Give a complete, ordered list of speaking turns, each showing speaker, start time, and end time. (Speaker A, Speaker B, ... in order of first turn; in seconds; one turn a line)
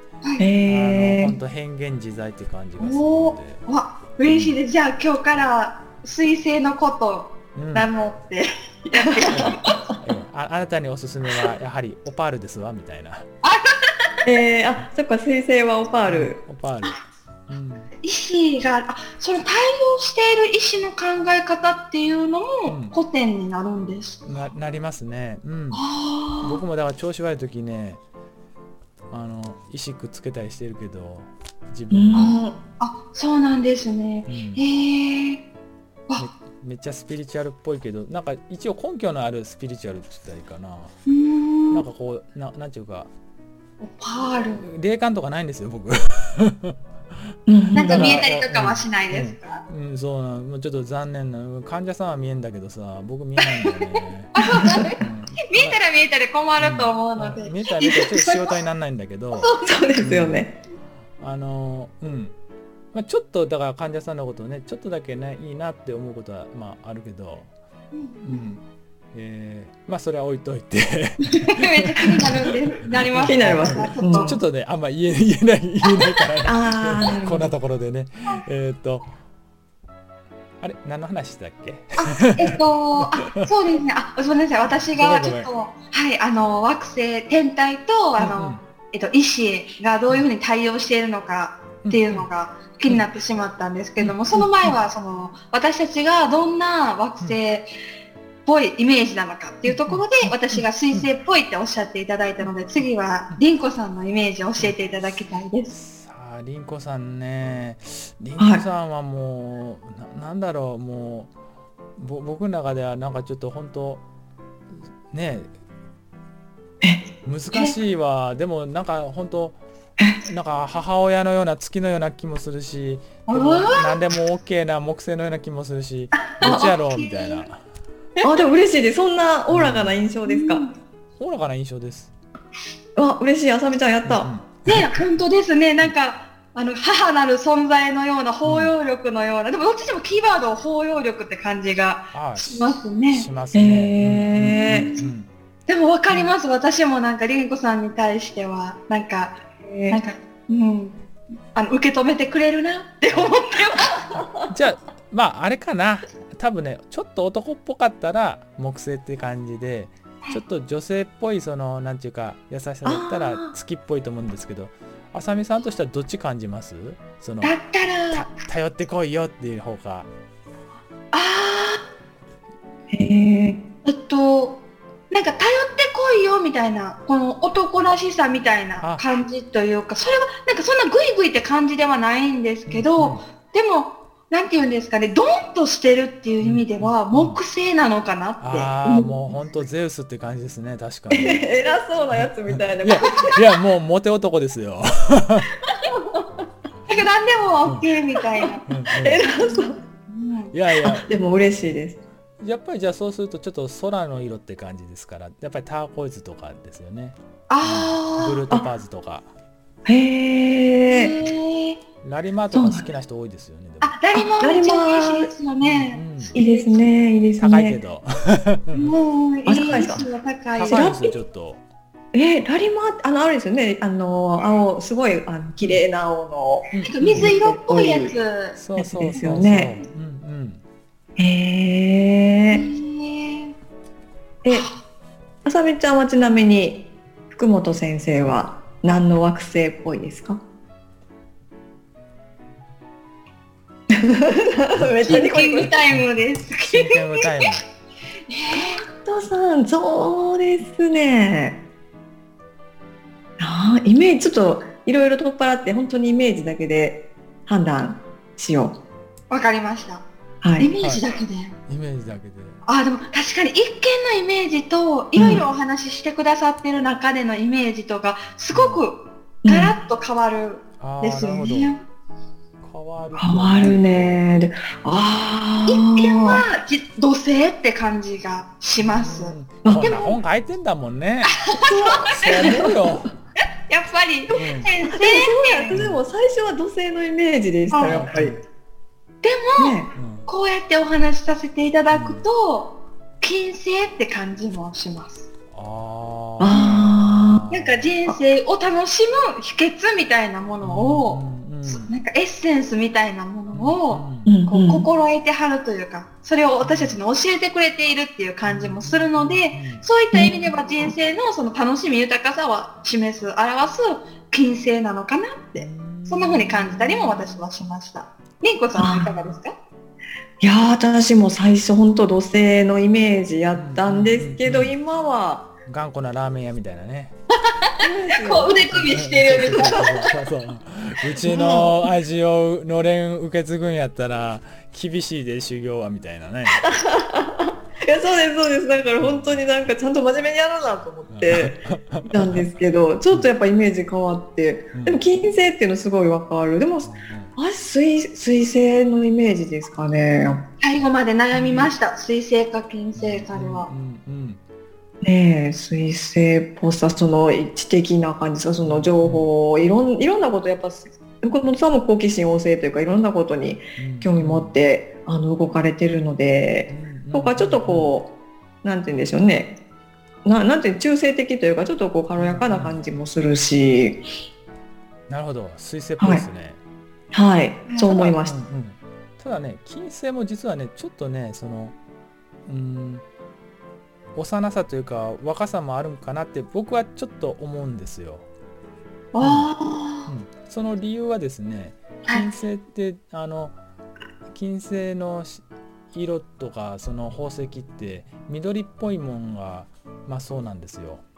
Speaker A: 0.4-1.4
Speaker B: 0.6-3.6
Speaker C: 2.8-9.8
Speaker B: 4.3-4.6
Speaker B: 7.5-7.9
Speaker A: 8.9-9.4
Speaker B: 9.3-13.3
Speaker C: 13.4-14.3
Speaker A: 14.2-16.4
Speaker B: 16.1-17.9
Speaker C: 18.0-24.2
Speaker B: 22.7-23.0
Speaker B: 24.2-25.8
Speaker C: 25.7-26.6
Speaker B: 26.4-28.0
Speaker B: 29.1-32.4
Speaker A: 31.9-32.5
Speaker C: 32.1-35.4
Speaker B: 34.3-34.6
Speaker B: 36.2-40.9
Speaker C: 41.1-41.8
Speaker B: 41.7-43.1
Speaker C: 43.8-44.6
Speaker B: 44.5-46.8
Speaker A: 47.5-48.3
Speaker B: 47.8-54.4
Speaker C: 47.8-49.6
Speaker C: 53.4-58.6
Speaker A: 54.6-54.9
Speaker B: 55.0-55.8
Speaker B: 56.6-60.4
Speaker C: 59.3-60.0
Speaker A: 59.6-60.5
Speaker B: 61.2-62.4
Speaker B: 62.9-67.5
Speaker C: 67.9-68.4
Speaker B: 68.2-68.6
Speaker B: 69.1-79.1
Speaker C: 71.3-74.4
Speaker A: 73.2-74.4
Speaker A: 76.5-77.5
Speaker B: 80.6-83.5
Speaker C: 82.0-97.7
Speaker B: 85.0-85.5
Speaker B: 88.2-88.6
Speaker B: 91.8-92.3
Speaker B: 94.0-94.4
Speaker C: 98.5-105.7
Speaker B: 99.8-100.3
Speaker B: 105.7-111.3
Speaker A: 108.4-108.6
Speaker B: 112.0-114.0
Speaker B: 115.1-115.5
Speaker B: 117.2-119.6
Speaker B: 120.2-127.6
Speaker C: 123.3-124.0
Speaker C: 126.2-127.4
Speaker A: 128.2-130.7
Speaker B: 129.5-130.0
Speaker C: 130.3-130.7
Speaker B: 131.2-132.1
Speaker A: 133.0-134.8
Speaker B: 134.1-134.9
Speaker C: 134.7-143.3
Speaker B: 138.4-138.7
Speaker B: 142.1-145.3
Speaker A: 143.5-145.0
Speaker C: 144.7-145.1
Speaker C: 145.7-151.0
Speaker A: 149.6-150.0
Speaker C: 151.6-154.1
Speaker B: 154.5-167.5
Speaker A: 162.8-163.5
Speaker C: 167.4-168.3
Speaker B: 168.1-170.1
Speaker C: 171.1-171.8
Speaker A: 172.9-173.6
Speaker C: 173.8-174.6
Speaker C: 175.1-189.1
Speaker B: 182.7-183.2
Speaker B: 186.4-187.4
Speaker B: 188.4-195.5
Speaker A: 191.1-193.4
Speaker A: 195.9-196.4
Speaker C: 196.9-198.7
Speaker A: 198.2-199.8
Speaker B: 198.7-199.2
Speaker C: 199.2-200.5
Speaker B: 200.5-201.2
Speaker A: 200.8-202.0
Speaker B: 202.4-209.3
Speaker C: 207.5-208.4
Speaker A: 209.8-211.1
Speaker C: 210.9-211.8
Speaker B: 212.0-213.9
Speaker C: 212.5-212.8
Speaker C: 213.8-216.9
Speaker A: 214.2-215.3
Speaker B: 215.6-216.3
Speaker A: 216.3-217.8
Speaker B: 217.4-219.0
Speaker C: 218.7-221.2
Speaker A: 219.5-220.1
Speaker B: 219.8-221.6
Speaker A: 222.1-228.2
Speaker B: 226.7-227.3
Speaker C: 226.8-228.6
Speaker B: 228.6-230.6
Speaker A: 228.8-229.7
Speaker A: 231.2-232.7
Speaker C: 232.5-233.6
Speaker A: 234.4-234.7
Speaker C: 234.5-234.8
Speaker A: 235.4-240.4
Speaker A: 243.9-245.8
Speaker C: 245.0-247.5
Speaker B: 246.7-247.6
Speaker C: 248.3-248.8
Speaker A: 248.5-251.6
Speaker A: 253.4-258.8
Speaker C: 259.3-260.1
Speaker A: 260.4-260.7
Speaker C: 260.6-261.6
Speaker B: 260.8-261.0
Speaker B: 261.7-262.6
Speaker C: 262.6-271.8
Speaker A: 265.1-265.4
Speaker B: 268.5-268.9
Speaker A: 269.4-269.8
Speaker B: 270.8-271.7
Speaker B: 272.6-274.2
Speaker A: 273.2-276.4
Speaker C: 275.7-280.2
Speaker B: 278.8-283.1
Speaker A: 279.6-279.9
Speaker C: 281.3-282.6
Speaker A: 281.7-283.0
Speaker C: 283.7-285.8
Speaker B: 284.3-284.7
Speaker A: 284.8-288.4
Speaker B: 285.7-286.0
Speaker C: 287.7-288.1
Speaker B: 287.8-288.4
Speaker C: 289.2-295.3
Speaker A: 289.6-289.9
Speaker B: 289.9-290.3
Speaker B: 291.9-292.2
Speaker B: 295.5-297.9
Speaker A: 296.4-297.5
Speaker C: 297.5-319.6
Speaker B: 300.6-301.9
Speaker B: 303.5-304.3
Speaker A: 304.3-304.9
Speaker B: 306.6-307.0
Speaker B: 308.4-309.9
Speaker A: 310.1-310.9
Speaker B: 315.6-317.4
Speaker A: 318.8-319.1
Speaker A: 320.4-325.5
Speaker B: 323.5-324.8
Speaker B: 325.7-327.1
Speaker C: 327.5-330.1
Speaker A: 327.8-329.9
Speaker B: 328.7-336.7
Speaker A: 331.2-331.9
Speaker A: 336.5-350.4
Speaker B: 339.0-339.4
Speaker B: 341.1-342.4
Speaker B: 344.7-345.1
Speaker B: 346.8-347.3
Speaker C: 350.6-353.7
Speaker B: 351.3-351.7
Speaker B: 352.9-354.4
Speaker A: 355.0-368.1
Speaker B: 358.6-359.3
Speaker B: 363.8-364.6
Speaker B: 366.7-367.9
Speaker A: 368.6-369.6
Speaker A: 370.2-374.0
Speaker B: 372.2-372.8
Speaker B: 375.1-376.6
Speaker A: 376.0-376.2
Speaker A: 377.1-378.4
Speaker C: 377.7-378.1
Speaker B: 378.2-381.8
Speaker B: 382.5-383.0
Speaker B: 384.1-388.3
Speaker C: 389.1-390.1
Speaker B: 389.2-389.5
Speaker B: 390.1-393.6
Speaker B: 394.3-401.0